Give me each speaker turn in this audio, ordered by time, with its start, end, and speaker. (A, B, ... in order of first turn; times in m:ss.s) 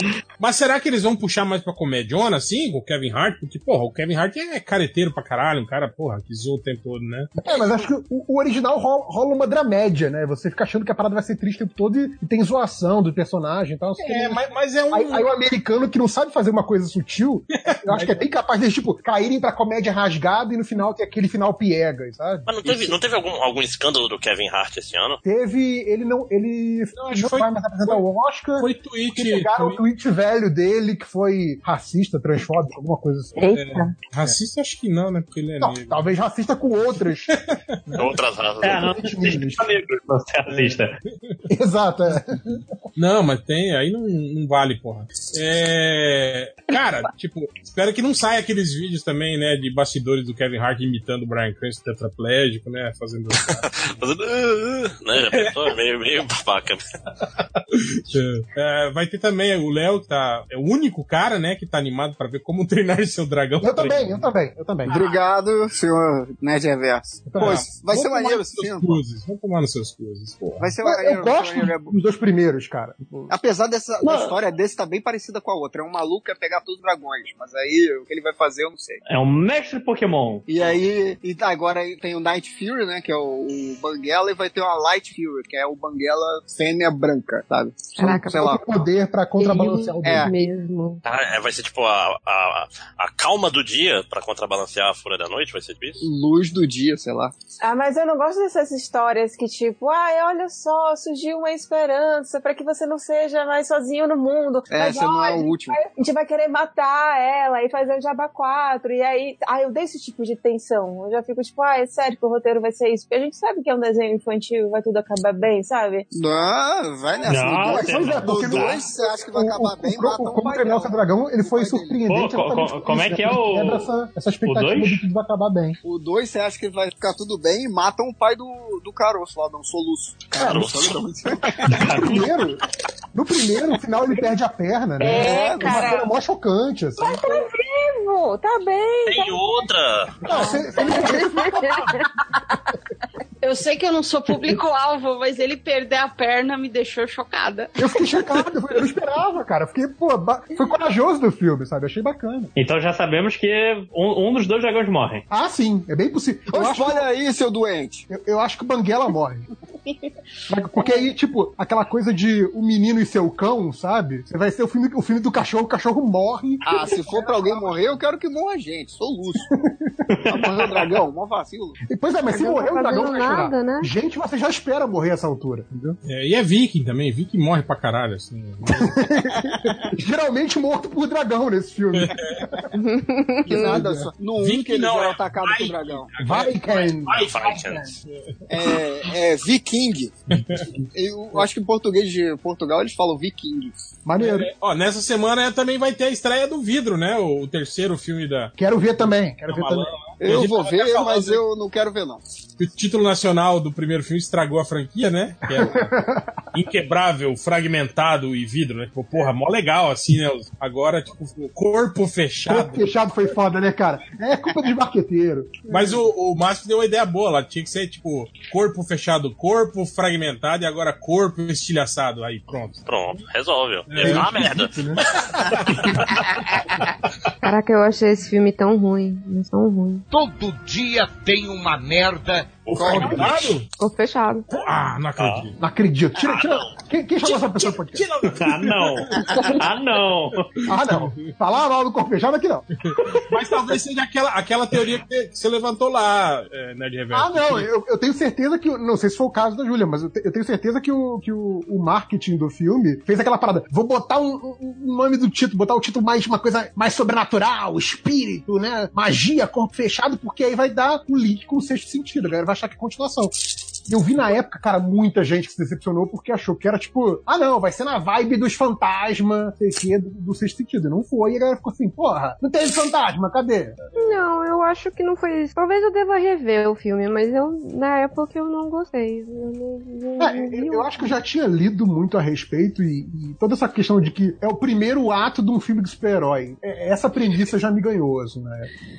0:00.4-0:07.3 A
0:07.4-0:23.0 B
0:14.0-0:15.3 A
0:17.6-0:18.2 A
0:22.5-0:25.2 C
0:25.2-0:33.4 B
0:27.0-0:28.0 A
0:28.6-0:29.8 A
0:33.4-0:33.9 D
0:33.5-0:36.1 A
0:35.6-0:37.4 B
0:37.3-0:38.1 A
0:38.0-0:38.9 C
0:38.6-0:41.0 E
0:38.8-0:39.7 B
0:40.5-0:41.4 A
0:41.5-0:42.6 B
0:43.0-0:53.7 A
0:53.6-0:56.8 C
0:55.2-0:55.8 A
0:57.7-1:04.3 A
1:03.6-1:05.0 B
1:04.9-1:09.0 F
1:07.3-1:07.7 B
1:07.4-1:10.7 A
1:10.6-1:11.9 F
1:10.8-1:13.3 B
1:13.3-1:19.0 F
1:19.1-1:20.4 E
1:20.5-1:28.6 F
1:28.0-1:28.5 G
1:28.0-1:30.3 B
1:29.4-1:31.0 G
1:30.0-1:30.3 F
1:31.0-1:36.0 C
1:36.0-1:37.3 F
1:37.6-1:56.5 D
1:44.7-1:45.8 F
1:56.1-2:02.0 F
1:57.3-1:58.8 E
1:57.6-2:05.8 B
2:02.1-2:03.9 E
2:04.4-2:05.0 E
2:05.8-2:11.9 F
2:10.4-2:10.8 C
2:10.4-2:10.8 B
2:11.7-2:12.3 E
2:11.7-2:12.6 B
2:13.1-2:17.3 B
2:15.0-2:16.1 D
2:15.0-2:15.9 F
2:17.0-2:19.6 D
2:19.1-2:20.2 C
2:20.2-2:22.1 B
2:20.3-2:22.1 G
2:20.4-2:20.9 D
2:23.4-2:28.3 H
2:27.8-2:32.5 B
2:32.6-2:35.2 E
2:35.3-2:37.0 B
2:36.5-2:38.1 F
2:38.1-2:39.5 B
2:40.5-2:47.5 B
2:46.6-2:49.5 F
2:49.6-2:50.3 B
2:50.1-2:50.9 E
2:50.3-2:51.8 F
2:51.9-2:56.0 B
2:52.3-2:53.9 G
2:56.0-2:59.1 A
2:58.7-3:02.4 B
3:01.9-3:02.5 A
3:02.8-3:03.9 G
3:03.4-3:06.1 F
3:03.5-3:04.1 B
3:04.4-3:08.3 A
3:06.2-3:07.9 B
3:07.1-3:07.9 C
3:08.5-3:10.1 F
3:10.3-3:10.6 A
3:10.5-3:10.9 B
3:10.9-3:13.8 F
3:14.0-3:14.5 B
3:14.2-3:18.5 A
3:18.6-3:19.9 B
3:19.5-3:21.4 A
3:20.2-3:22.2 F
3:22.6-3:25.9 A
3:25.5-3:26.4 B
3:26.5-3:32.9 A
3:32.4-3:36.1 B
3:35.7-3:42.8 A
3:42.9-3:46.1 C
3:43.9-3:44.7 A
3:44.0-3:45.0 B
3:45.5-3:45.7 A
3:47.4-3:50.1 G
3:50.1-3:52.5 I
3:52.7-3:53.7 A
3:52.7-3:53.6 F
3:53.8-3:54.5 G
3:54.5-3:55.6 A
3:55.2-3:55.5 C
3:55.6-3:58.1 B
3:56.2-3:56.6 C
3:57.2-3:59.5 A
3:58.3-4:00.5 E
4:00.6-4:01.3 A
4:00.7-4:02.7 B
4:02.8-4:07.7 A
4:07.1-4:23.4 B
4:23.9-4:33.8 B
4:34.0-4:41.1 G
4:40.2-4:48.7 B